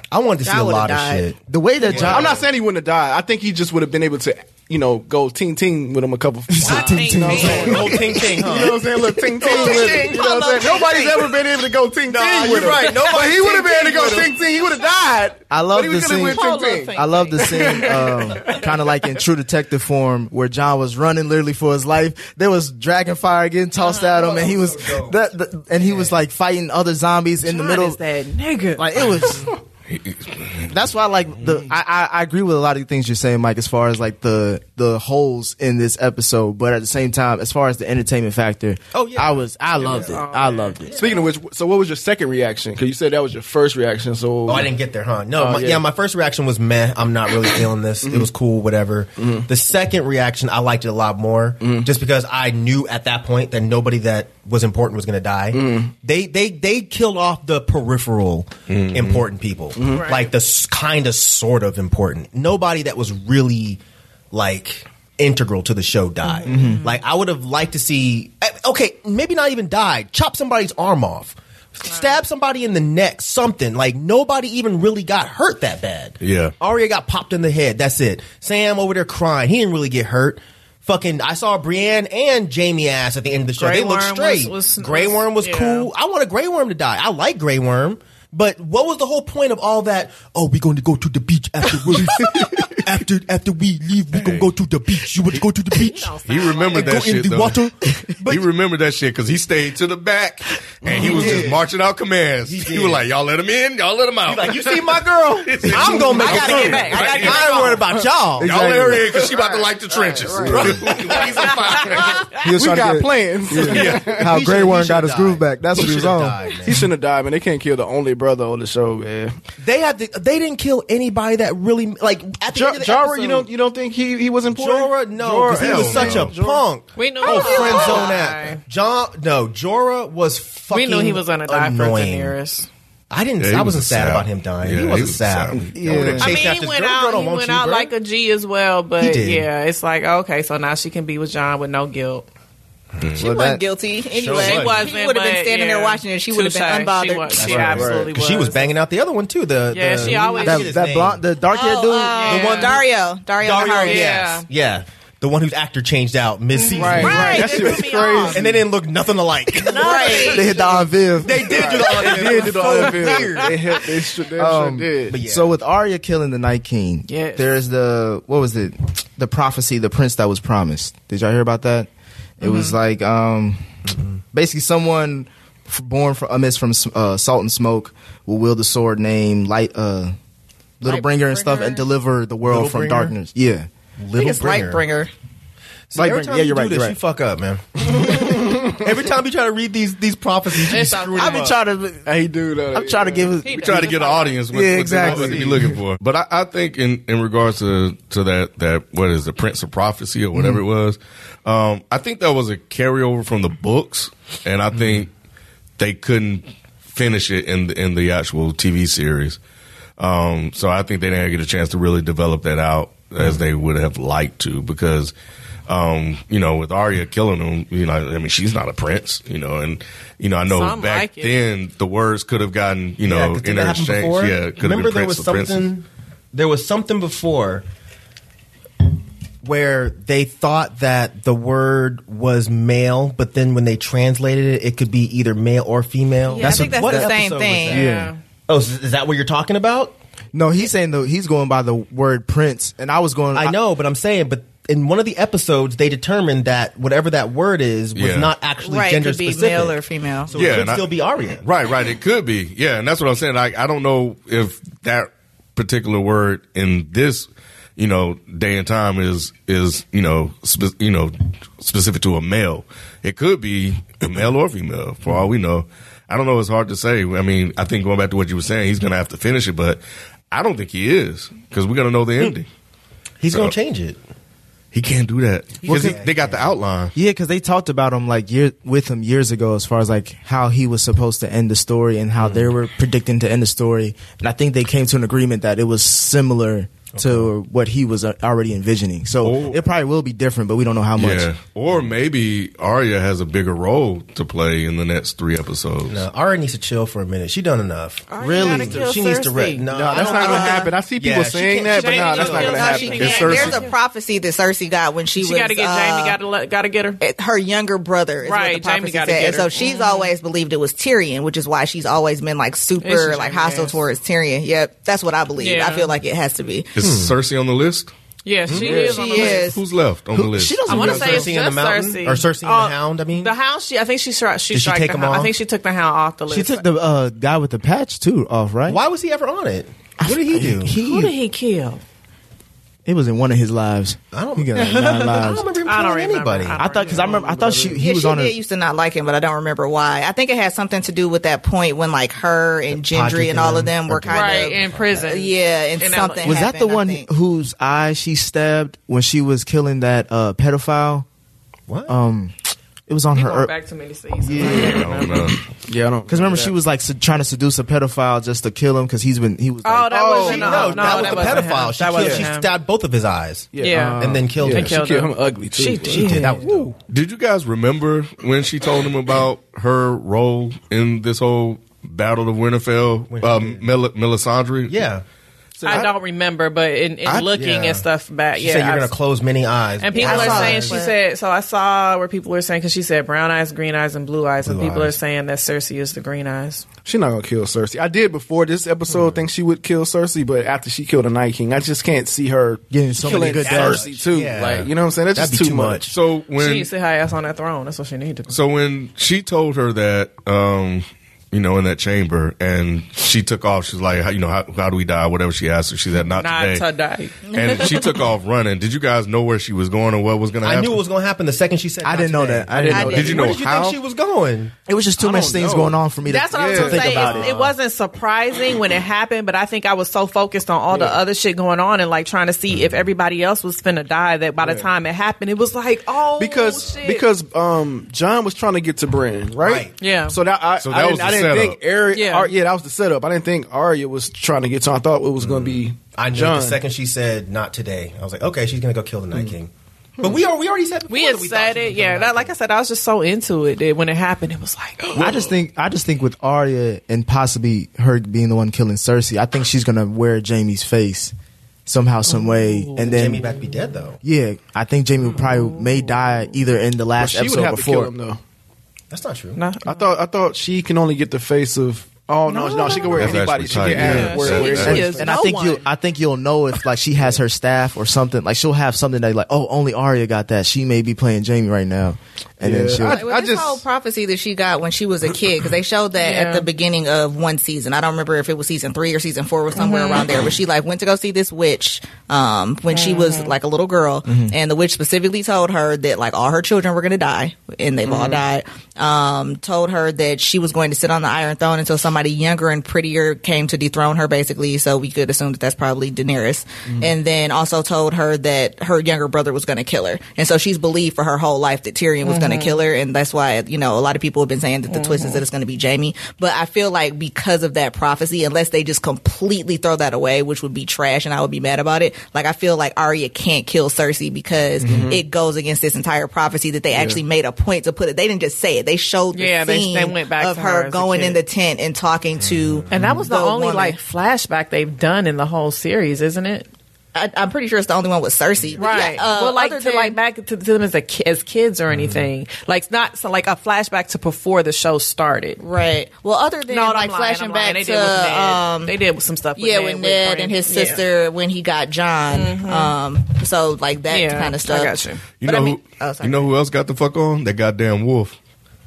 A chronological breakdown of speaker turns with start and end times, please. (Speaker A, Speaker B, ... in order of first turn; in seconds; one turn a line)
Speaker A: 0.1-2.4
Speaker B: 0.4-1.3
Speaker C: 1.5-2.4
Speaker D: 1.9-18.9
Speaker C: 6.5-8.2
Speaker E: 6.6-8.0
Speaker A: 7.3-10.2
Speaker B: 9.4-11.2
Speaker A: 12.1-14.4
Speaker C: 15.5-28.0
Speaker E: 16.3-18.6
Speaker A: 23.8-25.2
Speaker A: 25.8-26.2
Speaker E: 27.4-29.2
Speaker C: 28.8-29.5
Speaker F: 29.9-30.8
Speaker C: 30.7-41.0
Speaker A: 38.9-40.2
Speaker E: 39.8-40.8
Speaker A: 40.9-41.1
Speaker D: 40.9-44.7
Speaker A: 44.5-63.8
Speaker D: 45.4-45.9
Speaker D: 48.0-48.3
Speaker D: 49.2-49.5
Speaker D: 51.6-51.9
Speaker D: 55.5-55.9
Speaker F: 58.7-59.3
Speaker D: 59.8-60.2
Speaker E: 59.9-60.2
Speaker A: 64.3-96.2
Speaker E: 66.3-66.8
Speaker C: 66.5-66.8
Speaker E: 71.9-72.2
Speaker F: 76.2-76.5
Speaker E: 83.6-85.9
Speaker F: 94.1-94.5
Speaker E: 95.8-97.0
Speaker F: 96.2-97.6
Speaker A: 96.7-98.5
Speaker F: 98.3-107.5
Speaker A: 100.8-101.6
Speaker C: 100.9-101.4
Speaker A: 102.4-103.1
Speaker A: 104.2-109.6
Speaker E: 106.1-107.9
Speaker B: 106.2-107.7
Speaker C: 108.4-109.2
Speaker F: 108.4-112.3
Speaker D: 109.7-110.8
Speaker C: 110.3-110.8
Speaker A: 110.3-112.0
Speaker E: 111.1-112.4
Speaker D: 112.4-114.3
Speaker C: 112.4-116.6
Speaker F: 113.6-114.4
Speaker A: 113.7-116.9
Speaker D: 116.6-119.3
Speaker A: 119.6-123.5
Speaker D: 122.5-126.7
Speaker A: 124.5-132.3
Speaker F: 125.5-126.3
Speaker E: 127.0-128.6
Speaker B: 127.2-128.1
Speaker E: 130.7-132.7
Speaker A: 133.1-137.9
Speaker F: 133.4-136.4
Speaker C: 135.6-136.3
Speaker E: 136.2-142.3
Speaker A: 139.0-139.5
Speaker F: 143.0-143.3
Speaker B: 143.2-147.6
Speaker C: 143.2-143.6
Speaker A: 144.1-144.9
Speaker E: 144.3-148.7
Speaker A: 147.3-151.2
Speaker D: 147.5-148.1
Speaker C: 147.5-147.9
Speaker E: 149.7-150.8
Speaker C: 150.1-152.4
Speaker B: 151.5-154.1
Speaker E: 152.1-152.8
Speaker A: 152.3-152.9
Speaker A: 153.4-157.5
Speaker E: 153.8-154.5
Speaker E: 156.6-158.4
Speaker D: 156.8-158.6
Speaker B: 157.1-157.4
Speaker A: 158.3-163.8
Speaker B: 159.7-160.8
Speaker E: 159.8-160.8
Speaker C: 160.3-161.5
Speaker D: 161.3-165.2
Speaker E: 163.2-163.5
Speaker C: 164.4-171.9
Speaker A: 165.1-165.6
Speaker E: 167.1-167.5
Speaker C: 172.4-173.6
Speaker E: 172.4-172.8
Speaker A: 173.9-174.2
Speaker C: 174.3-180.2
Speaker C: 180.8-183.7
Speaker B: 180.8-181.8
Speaker A: 182.4-183.2
Speaker A: 184.0-184.9
Speaker B: 184.2-185.1
Speaker A: 185.9-191.6
Speaker C: 185.9-187.0
Speaker D: 188.0-188.8
Speaker E: 190.6-191.5
Speaker C: 191.1-192.1
Speaker D: 192.1-193.4
Speaker C: 192.7-193.9
Speaker E: 193.4-194.4
Speaker F: 193.5-205.1
Speaker C: 194.5-195.8
Speaker D: 195.0-195.5
Speaker C: 200.3-200.6
Speaker F: 205.8-209.4
Speaker F: 210.0-215.1
Speaker F: 215.7-225.7
Speaker E: 220.5-221.4
Speaker A: 223.0-227.7
Speaker A: 229.4-237.9
Speaker B: 236.2-237.8
Speaker C: 236.4-237.2
Speaker C: 237.7-238.1
Speaker E: 237.7-238.2
Speaker A: 238.5-240.0
Speaker C: 240.3-243.6
Speaker A: 243.3-251.4
Speaker F: 247.9-248.3
Speaker B: 248.6-250.3
Speaker E: 248.7-249.7
Speaker F: 250.4-272.5
Speaker A: 273.2-274.0
Speaker F: 274.7-276.9
Speaker C: 275.6-276.0
Speaker A: 275.7-276.6
Speaker C: 276.9-291.3
Speaker F: 282.2-282.5
Speaker A: 286.9-287.3
Speaker F: 289.2-289.7
Speaker F: 291.0-296.0
Speaker A: 295.9-303.5
Speaker E: 298.1-300.7
Speaker C: 298.2-298.8
Speaker D: 299.7-303.5
Speaker E: 301.7-303.8
Speaker B: 302.5-306.2
Speaker F: 303.1-303.6
Speaker E: 305.2-307.0
Speaker B: 307.0-316.8
Speaker E: 308.2-310.1
Speaker E: 312.8-313.8
Speaker E: 315.4-315.9
Speaker F: 316.8-317.9
Speaker A: 316.8-317.1
Speaker E: 318.2-319.5
Speaker A: 318.5-319.0
Speaker D: 318.5-319.2
Speaker B: 318.8-319.6
Speaker F: 319.2-320.7
Speaker C: 320.1-321.4
Speaker A: 320.7-323.3
Speaker E: 320.7-326.6
Speaker A: 324.5-325.3
Speaker C: 326.3-328.8
Speaker A: 328.7-330.8
Speaker C: 330.0-331.1
Speaker E: 330.8-331.8
Speaker C: 332.9-335.5
Speaker A: 334.1-337.1
Speaker E: 335.6-337.4
Speaker C: 336.5-338.4
Speaker D: 337.1-337.8
Speaker B: 337.8-347.1
Speaker A: 342.7-344.8
Speaker E: 344.1-346.4
Speaker C: 346.2-351.1
Speaker A: 351.7-352.0
Speaker C: 351.9-352.3
Speaker C: 352.9-353.5
Speaker E: 353.1-355.3
Speaker C: 354.2-354.9
Speaker F: 354.4-355.4
Speaker D: 355.6-356.6
Speaker C: 356.1-360.1
Speaker E: 359.6-362.5
Speaker D: 359.9-361.4
Speaker A: 360.2-364.8
Speaker D: 362.0-362.3
Speaker D: 363.5-366.1
Speaker E: 363.6-366.4
Speaker C: 363.7-364.4
Speaker A: 365.9-366.8
Speaker C: 366.0-366.7
Speaker F: 366.9-374.8
Speaker A: 373.1-373.7
Speaker A: 374.7-375.0
Speaker F: 375.6-375.9
Speaker E: 375.6-378.9
Speaker A: 377.3-377.9
Speaker A: 378.4-380.8
Speaker E: 379.8-386.7
Speaker B: 379.9-380.9
Speaker A: 384.4-385.0
Speaker D: 386.9-395.9
Speaker A: 388.9-389.2
Speaker C: 392.7-393.9
Speaker A: 393.0-395.9
Speaker F: 395.9-396.7
Speaker E: 396.4-398.3
Speaker F: 398.3-406.6
Speaker E: 406.1-407.8
Speaker B: 407.2-407.9
Speaker F: 407.3-410.8
Speaker A: 410.4-414.5
Speaker C: 411.8-413.2
Speaker D: 412.5-413.5
Speaker F: 412.9-413.8
Speaker C: 414.7-417.3
Speaker D: 415.0-415.8
Speaker E: 416.1-427.1
Speaker D: 416.3-417.3
Speaker A: 416.8-417.6
Speaker D: 420.7-421.0
Speaker D: 424.4-424.7
Speaker D: 426.2-436.6
Speaker A: 429.4-429.7
Speaker E: 429.8-430.2
Speaker F: 430.6-431.6
Speaker E: 431.9-432.3
Speaker A: 435.9-442.3
Speaker E: 440.9-445.1
Speaker C: 445.0-451.1
Speaker C: 451.7-453.3
Speaker E: 452.2-452.8
Speaker A: 452.8-454.0
Speaker C: 454.0-457.9
Speaker E: 455.4-455.8
Speaker D: 457.0-458.2
Speaker A: 458.9-459.4
Speaker E: 459.4-459.9
Speaker D: 459.6-465.2
Speaker E: 462.3-463.2
Speaker F: 462.9-464.9
Speaker C: 463.7-473.0
Speaker E: 463.7-465.6
Speaker D: 472.4-473.6
Speaker B: 472.9-523.8
Speaker E: 476.0-476.5
Speaker E: 479.6-480.1
Speaker E: 482.7-483.3
Speaker C: 484.1-484.3
Speaker D: 487.8-488.2
Speaker E: 502.0-502.7
Speaker E: 504.7-505.2
Speaker D: 514.6-515.0
Speaker D: 516.7-517.0
Speaker E: 519.1-521.2
Speaker A: 522.2-523.1
Speaker E: 522.7-526.5
Speaker B: 526.9-530.0
Speaker E: 528.6-535.4
Speaker A: 531.7-532.1
Speaker B: 535.4-538.8
Speaker E: 536.5-540.9
Speaker B: 539.4-546.3
Speaker E: 542.1-542.8
Speaker E: 543.9-545.0
Speaker F: 545.2-548.2